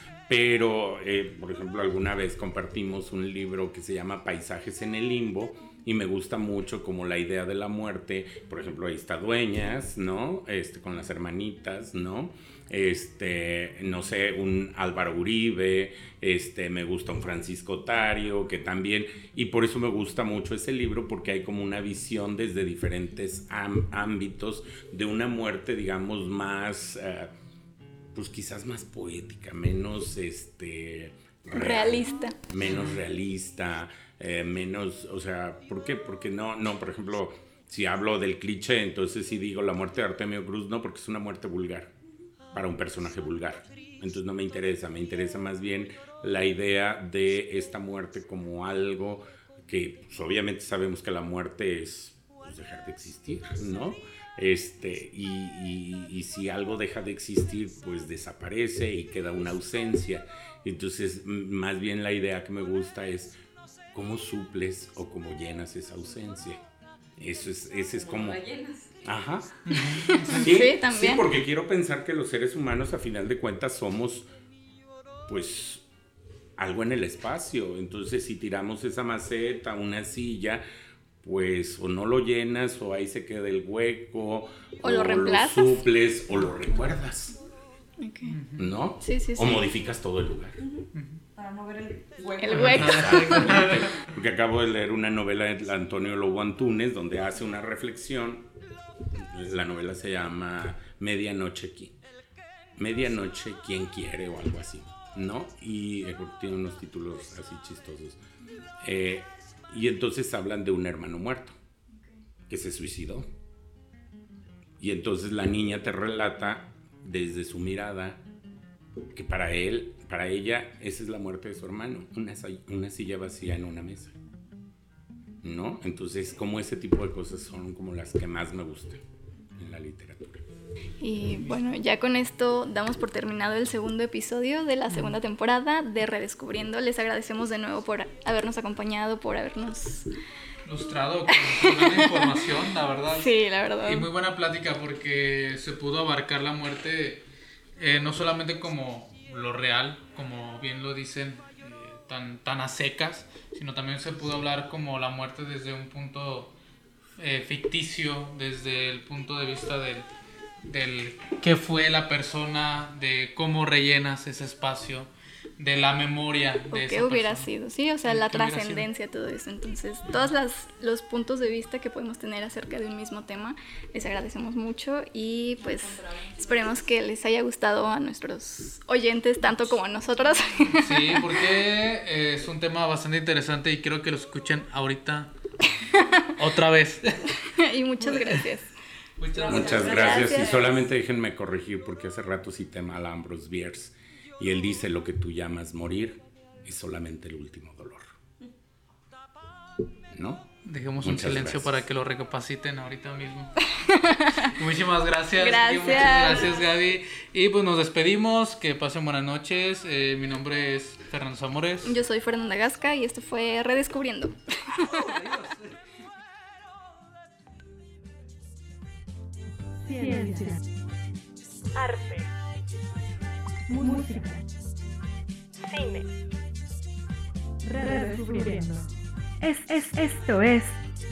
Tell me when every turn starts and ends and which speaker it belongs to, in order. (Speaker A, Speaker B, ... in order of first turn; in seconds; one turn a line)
Speaker A: 0.3-27.3
Speaker A: 28.1-41.9
Speaker B: 31.5-32.4
Speaker A: 42.5-63.4
Speaker A: 63.9-66.6
Speaker A: 67.2-68.4
Speaker C: 67.9-69.0
Speaker A: 69.0-74.3
Speaker D: 69.7-70.5
Speaker B: 70.0-71.2
Speaker A: 75.3-75.8
Speaker A: 76.6-80.6
Speaker A: 81.2-87.3
Speaker B: 84.8-85.9
Speaker B: 88.0-88.4
Speaker D: 88.2-88.7
Speaker A: 88.6-90.6
Speaker B: 89.0-89.7
Speaker C: 90.6-93.2
Speaker B: 92.4-93.8
Speaker D: 92.5-93.8
Speaker A: 92.6-98.5
Speaker A: 99.1-101.9
Speaker A: 102.8-108.2
Speaker A: 108.8-111.5
Speaker A: 112.5-113.3
Speaker A: 114.8-118.2
Speaker A: 119.1-124.1
Speaker A: 125.4-129.0
Speaker A: 129.6-130.4
Speaker B: 131.0-140.1
Speaker D: 140.6-143.3
Speaker B: 141.3-142.4
Speaker B: 143.1-144.1
Speaker D: 143.8-147.2
Speaker D: 147.8-156.5
Speaker D: 157.2-160.1
Speaker D: 160.6-167.5
Speaker B: 166.7-181.5
Speaker D: 168.0-168.9
Speaker C: 175.6-177.0
Speaker D: 180.8-185.3
Speaker B: 185.9-186.2
Speaker D: 186.3-187.3
Speaker B: 187.5-188.7
Speaker D: 188.0-188.4
Speaker D: 189.2-189.9
Speaker C: 189.3-190.8
Speaker B: 189.4-190.7
Speaker A: 189.5-198.1
Speaker A: 200.1-200.5
Speaker D: 200.6-203.6
Speaker A: 201.0-201.8
Speaker B: 203.8-204.5
Speaker D: 204.4-211.9
Speaker B: 205.4-206.6
Speaker C: 206.2-206.6
Speaker B: 211.8-215.5
Speaker E: 219.8-220.6
Speaker E: 221.7-222.3
Speaker E: 223.7-224.4
Speaker E: 225.6-226.1
Speaker E: 227.6-228.9
Speaker E: 229.4-230.8